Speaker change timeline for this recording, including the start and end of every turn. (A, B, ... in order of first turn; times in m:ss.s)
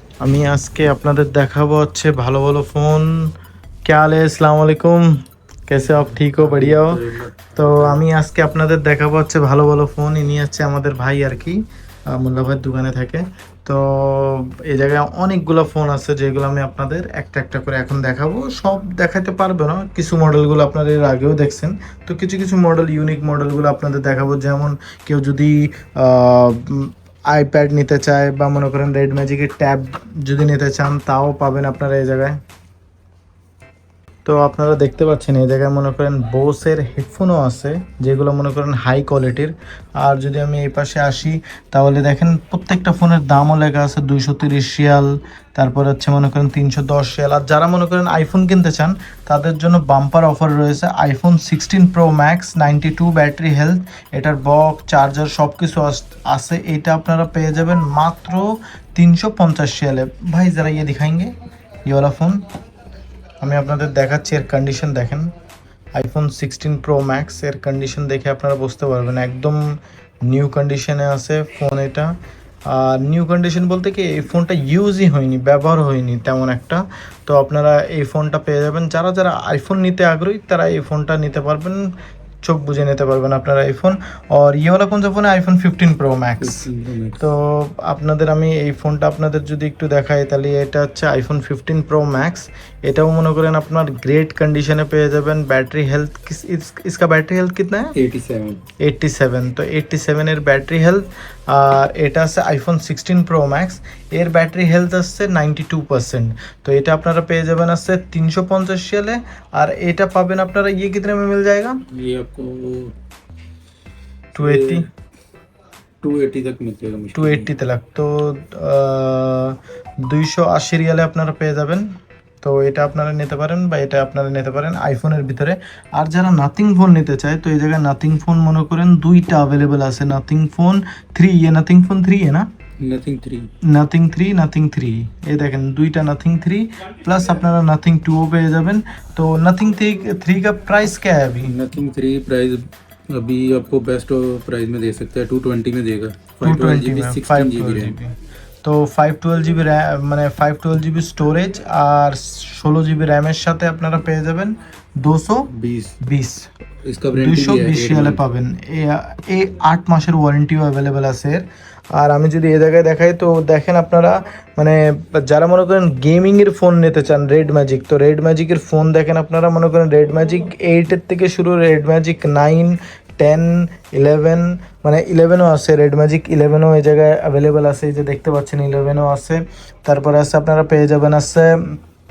0:00.2-0:03.3 A
0:03.8-0:32.4 A
0:05.8-0:08.0 B
0:34.2-1:01.3 A
1:01.8-1:02.4 A
1:03.4-1:05.3 A
1:05.9-1:21.9 A
1:22.4-1:26.6 A
1:26.4-1:27.2 B
1:27.2-1:37.9 A
1:37.9-1:38.6 B
1:38.8-1:51.8 A
1:51.9-1:52.9 B
1:54.3-1:54.9 A
1:54.3-1:54.9 B
1:56.0-1:57.5 B
1:57.1-2:12.5 A
2:12.8-2:13.5 B
2:13.6-2:21.5 A
2:21.4-2:28.0 B
2:26.4-2:36.5 A
2:35.5-2:36.0 B
2:36.8-2:38.2 B
2:37.2-3:01.8 A